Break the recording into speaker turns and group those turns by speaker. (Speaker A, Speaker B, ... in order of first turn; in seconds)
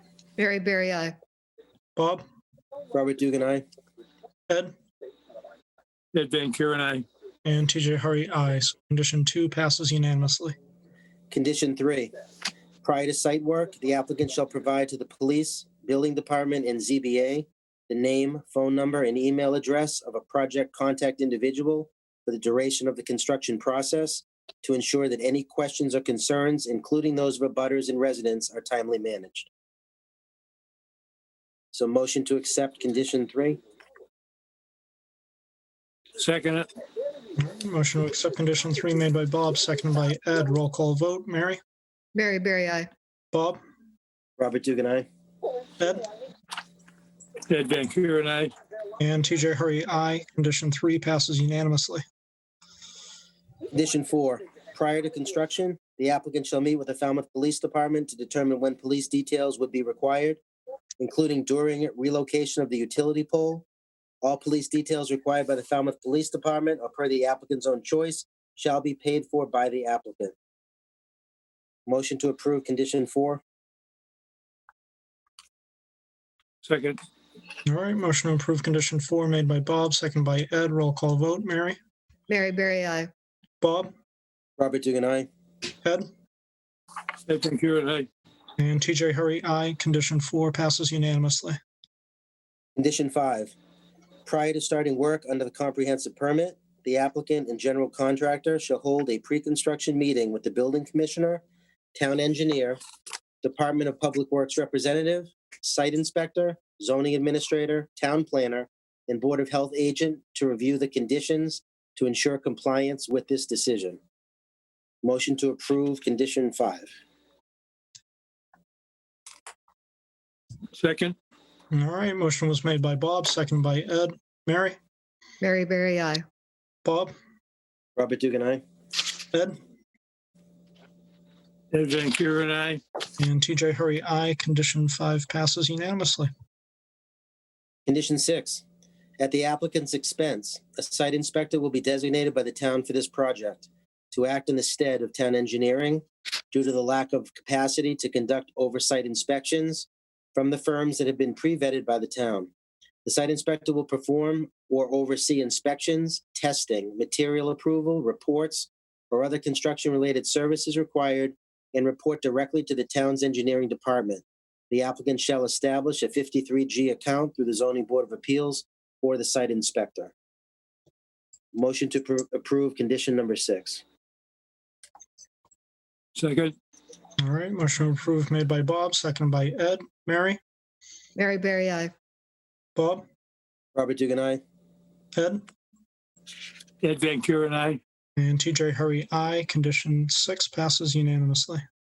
Speaker A: 0.4-1.1, 42.1-42.9, 82.3-83.1, 125.4-126.2, 181.2-181.9
Speaker B: 1.9-2.2, 7.4-10.5, 37.4-41.6, 43.3-43.6, 45.8-46.0, 49.0-52.0, 77.6-81.8, 83.6-83.9, 88.6-91.6, 121.7-124.8, 126.8-127.1, 133.2-136.3, 177.2-180.4, 182.8-183.0, 185.1-185.4, 188.2-191.6
Speaker C: 2.9-3.6, 11.3-12.1, 12.8-29.5, 31.7-33.6, 44.4-45.0, 53.7-60.4, 61.0-63.6, 64.2-70.3, 71.8-73.4, 84.6-85.3, 92.8-93.5, 94.2-101.4, 102.0-102.8, 103.4-114.0, 115.0-116.9, 128.0-128.6, 137.9-138.6, 139.2-152.5, 153.0-170.1, 171.5-173.8, 183.7-184.4
Speaker D: 6.1-7.0, 36.2-36.7, 47.5-48.5, 76.6-77.0, 87.3-88.1, 120.7-121.1, 131.7-132.8, 176.2-176.5, 186.8-187.8